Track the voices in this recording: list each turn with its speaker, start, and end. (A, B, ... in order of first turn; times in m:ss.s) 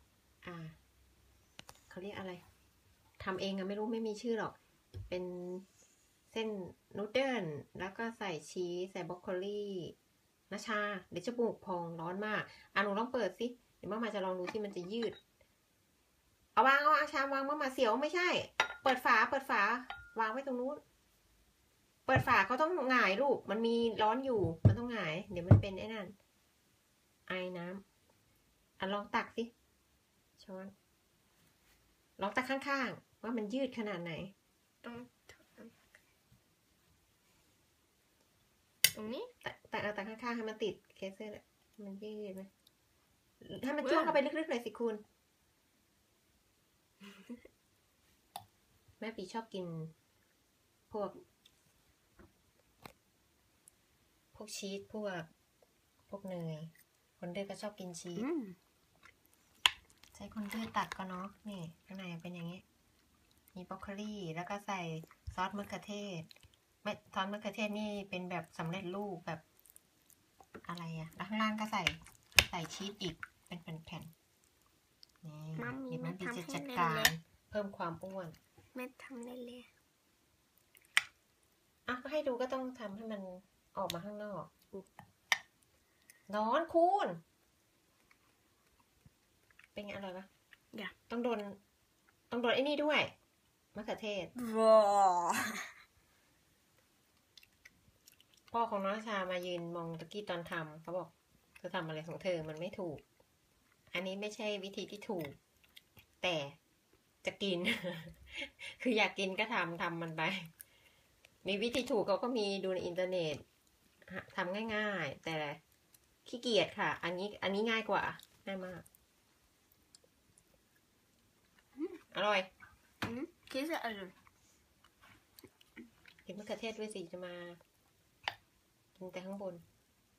0:00.4-0:00.8 A
0:01.9-0:02.4 A
0:03.2-0:04.6 A
0:05.1-0:05.6 A
0:06.3-0:10.0 A
0:10.5-0:15.2 A
0:16.6-0:20.8 A
0:22.0-0:26.1 A
0:27.3-0:27.8 A
0:28.8-0:29.5 A
0:30.4-0:30.7 A
0:32.2-0:34.3 A
0:34.8-0:35.8 B
0:38.9-0:39.3 B
0:39.4-0:42.5 A
0:43.4-0:45.0 A
0:43.8-0:44.2 B
0:49.0-0:49.9 A
0:50.9-0:51.2 A
0:54.3-0:55.3 A
0:56.1-0:58.3 A
0:58.2-0:58.6 B
1:00.1-1:02.6 A
1:03.5-1:06.3 A
1:06.8-1:09.4 A
1:10.6-1:14.1 A
1:15.2-1:18.4 A
1:15.6-1:17.1 B
1:18.7-1:19.7 B
1:21.8-1:24.5 A
1:26.3-1:27.2 A
1:29.7-1:30.3 A
1:31.1-1:31.6 A
1:32.3-1:33.1 A
1:33.7-1:34.3 A
1:34.3-1:35.7 B
1:38.5-1:43.0 A
1:43.9-1:45.4 A
1:46.2-1:46.6 A
1:47.2-1:50.5 A
1:51.4-1:53.4 A
1:54.1-1:55.6 A
1:56.2-1:58.8 A
2:02.0-2:02.5 A
2:03.0-2:04.1 B
2:06.2-2:07.6 A
2:08.9-2:09.6 A